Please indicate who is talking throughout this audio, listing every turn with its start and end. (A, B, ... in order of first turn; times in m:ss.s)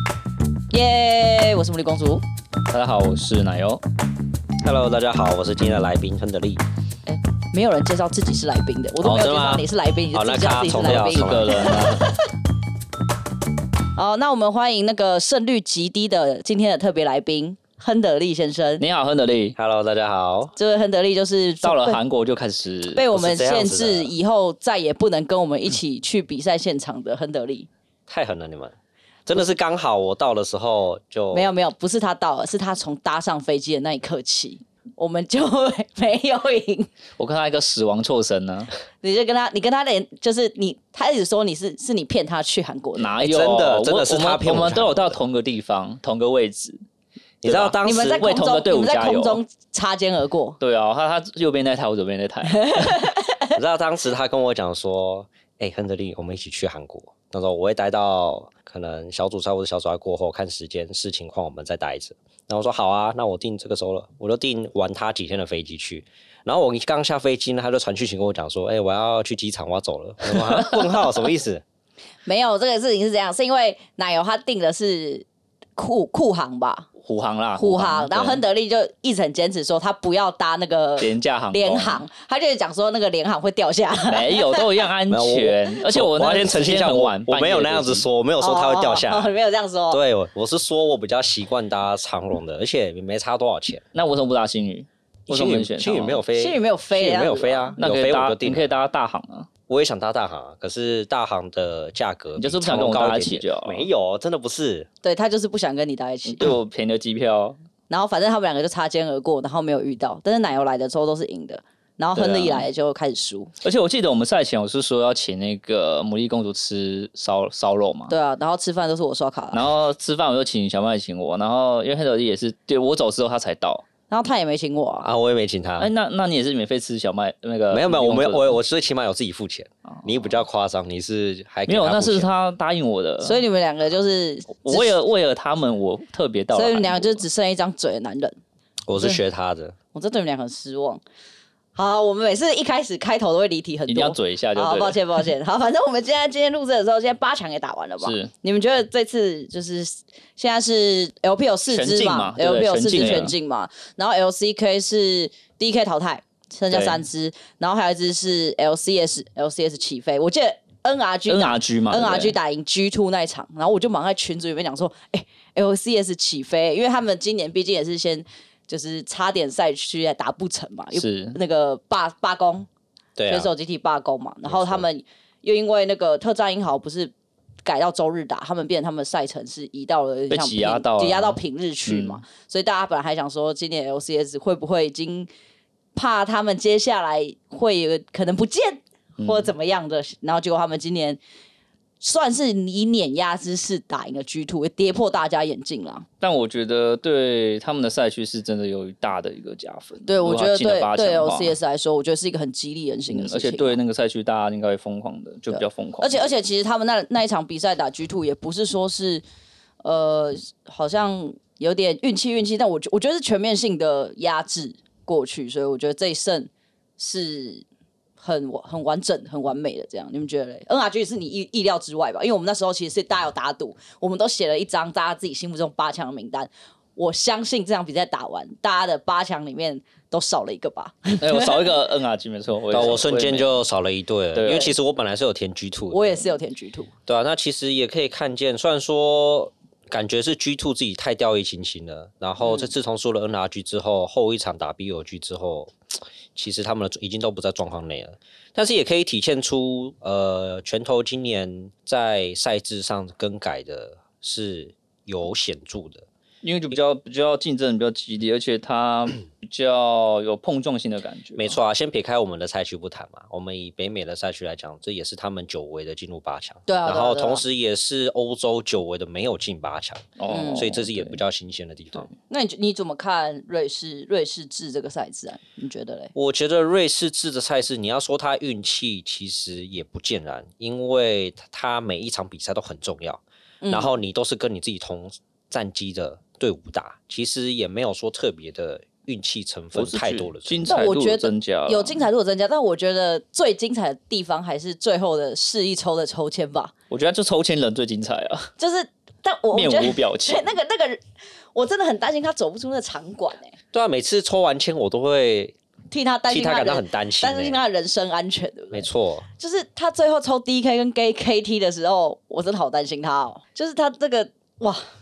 0:00.7-0:02.2 A
0:02.7-0:03.8 B
0:04.6-0:06.6 C
0:07.1-0:12.0 A
0:09.0-0:11.8 C
0:10.8-0:12.2 B
0:14.0-0:18.8 A
0:18.8-0:19.6 B
0:19.6-0:20.5 C
0:20.6-0:22.0 A
0:21.6-0:23.1 B
0:23.0-0:27.7 A
0:23.1-0:24.1 C
0:28.1-0:28.7 C
0:29.3-0:31.5 C
0:31.3-0:36.9 A
0:37.2-0:38.7 B
0:39.0-0:43.2 A
0:43.0-0:46.8 B
0:43.2-0:45.2 C
0:47.4-0:48.3 C
0:47.4-0:49.4 B
0:47.8-0:50.6 A
0:50.6-0:53.0 B
0:52.5-0:53.5 A
0:53.6-1:11.6 C
1:12.3-1:16.9 A
1:17.0-1:18.4 B
1:17.6-1:24.7 A
1:21.0-1:22.0 B
1:24.1-1:28.1 B
1:25.1-1:29.3 C
1:28.4-1:30.0 A
1:29.9-1:33.8 C
1:33.9-1:36.2 B
1:35.3-1:38.7 C
1:36.4-1:37.8 A
1:37.8-1:39.5 B
1:39.7-1:44.9 C
1:42.4-1:43.9 B
1:45.0-1:46.5 A
1:46.3-1:47.6 B
1:47.9-1:53.5 A
1:52.2-1:52.7 B
1:53.6-1:58.1 B
1:58.1-1:59.6 A
1:59.5-2:03.8 B
2:04.1-2:05.1 A
2:05.0-2:05.9 C
2:05.8-2:08.6 B
2:07.7-2:12.3 C
2:11.7-2:13.4 B
2:13.2-2:14.9 A
2:14.6-2:17.2 B
2:16.5-2:18.4 A
2:18.9-2:19.8 C
2:19.9-2:21.0 A
2:21.8-2:52.7 A
2:23.9-2:25.1 B
2:28.0-2:28.3 B
2:31.7-2:33.3 B
2:36.7-2:37.0 B
2:41.3-2:42.4 B
2:51.0-2:51.4 B
2:53.2-2:53.5 C
2:53.3-2:57.1 A
2:54.4-2:54.8 C
2:57.6-3:05.3 A
3:00.3-3:02.2 B
3:06.0-3:11.2 A
3:09.2-3:09.5 B
3:12.0-3:16.1 A
3:16.2-3:21.6 B
3:20.1-3:23.8 A
3:23.1-3:26.2 B
3:25.5-3:29.2 A
3:29.8-3:37.6 A
3:38.2-3:51.7 A
3:51.2-3:53.6 B
3:52.7-3:56.2 C
3:54.4-3:54.7 B
3:54.5-3:54.7 A
3:55.9-3:56.9 A
3:57.1-4:16.1 C
4:02.4-4:02.7 A
4:16.4-4:21.6 B
4:21.4-4:32.1 C
4:26.7-4:27.4 A
4:30.2-4:31.2 B
4:30.3-4:30.7 A
4:32.3-4:36.1 A
4:36.2-4:50.7 C
4:43.6-4:43.9 A
4:49.8-4:52.1 B
4:50.7-4:56.7 A
4:56.9-4:58.5 B
4:58.6-5:01.0 A
4:59.5-5:00.5 B
5:01.5-5:03.6 A
5:03.7-5:05.6 C
5:05.9-5:14.8 A
5:06.3-5:07.6 C
5:08.7-5:09.3 C